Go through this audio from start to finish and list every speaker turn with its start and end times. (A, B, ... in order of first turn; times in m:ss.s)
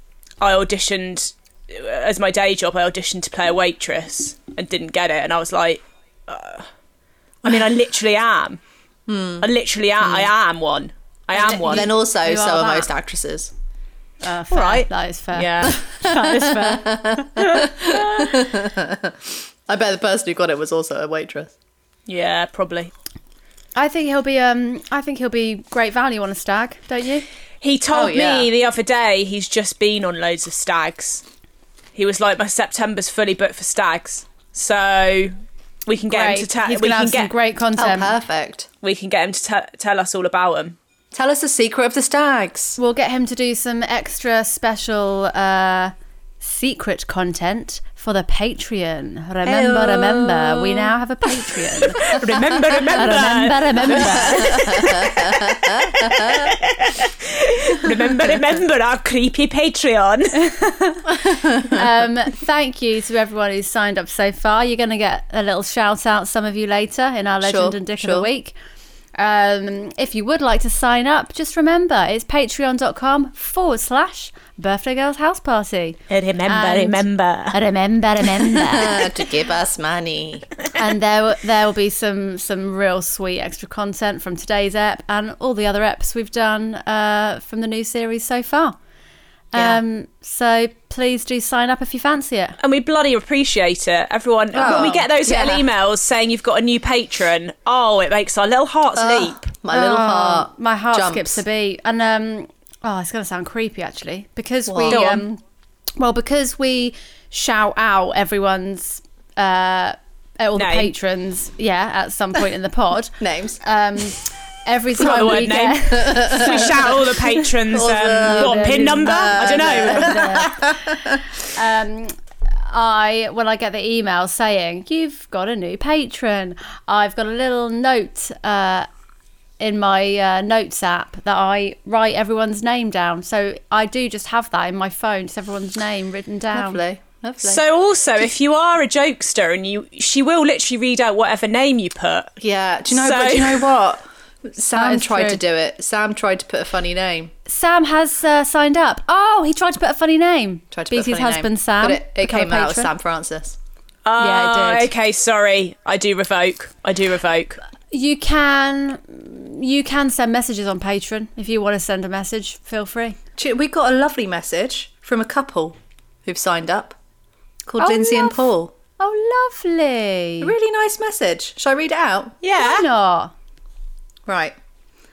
0:00.4-0:06.7 A
0:07.4-0:08.6 A
0:09.1-0:09.5 B
0:09.4-0:11.9 A
0:10.0-0:10.3 B
0:11.4-0:12.9 C
0:11.5-0:13.5 B
0:14.2-0:18.4 C
0:14.5-0:15.8 A
0:16.1-0:21.5 B
0:22.1-0:22.9 A
0:23.8-0:27.3 C
0:27.6-0:31.2 A
0:27.9-0:28.5 B
0:32.0-0:35.3 A
0:35.9-0:37.3 A
0:36.1-0:38.1 C
0:37.8-0:38.7 B
0:38.8-0:40.8 A
0:41.1-0:42.8 B
0:42.8-0:55.1 C
0:49.5-0:50.9 B
0:52.0-1:00.5 A
0:52.1-0:52.8 B
0:54.3-0:56.5 B
1:00.4-1:08.6 C
1:07.4-1:08.3 B
1:09.2-1:19.1 C
1:16.1-1:17.6 A
1:18.6-1:20.6 B
1:20.8-1:28.8 C
1:29.5-1:32.6 C
1:29.6-1:29.8 B
1:32.6-1:39.5 A
1:34.5-1:35.7 B
1:34.6-1:34.9 C
1:39.0-1:41.4 B
1:39.7-1:45.4 C
1:44.7-1:45.2 B
1:44.9-1:45.2 A
1:46.0-1:57.0 C
1:50.6-1:50.9 A
1:53.2-1:53.6 B
1:55.0-2:00.2 A
1:56.0-1:56.6 B
1:57.7-2:01.2 B
1:58.2-2:02.2 C
2:02.7-2:08.9 C
2:09.6-2:16.8 C
2:16.5-2:17.6 B
2:17.4-2:22.4 A
2:22.4-2:27.3 B
2:22.9-2:23.7 A
2:24.8-2:25.4 C
2:27.5-2:32.9 C
2:30.7-2:33.6 B
2:34.0-2:37.6 A
2:34.2-2:34.9 C
2:37.9-2:43.2 C
2:43.4-2:47.0 B
2:47.7-2:48.7 B
2:47.8-2:48.5 C
2:49.0-2:50.5 C
2:50.4-2:52.4 B
2:52.4-2:52.9 A
2:52.6-2:53.3 C
2:54.3-2:54.6 B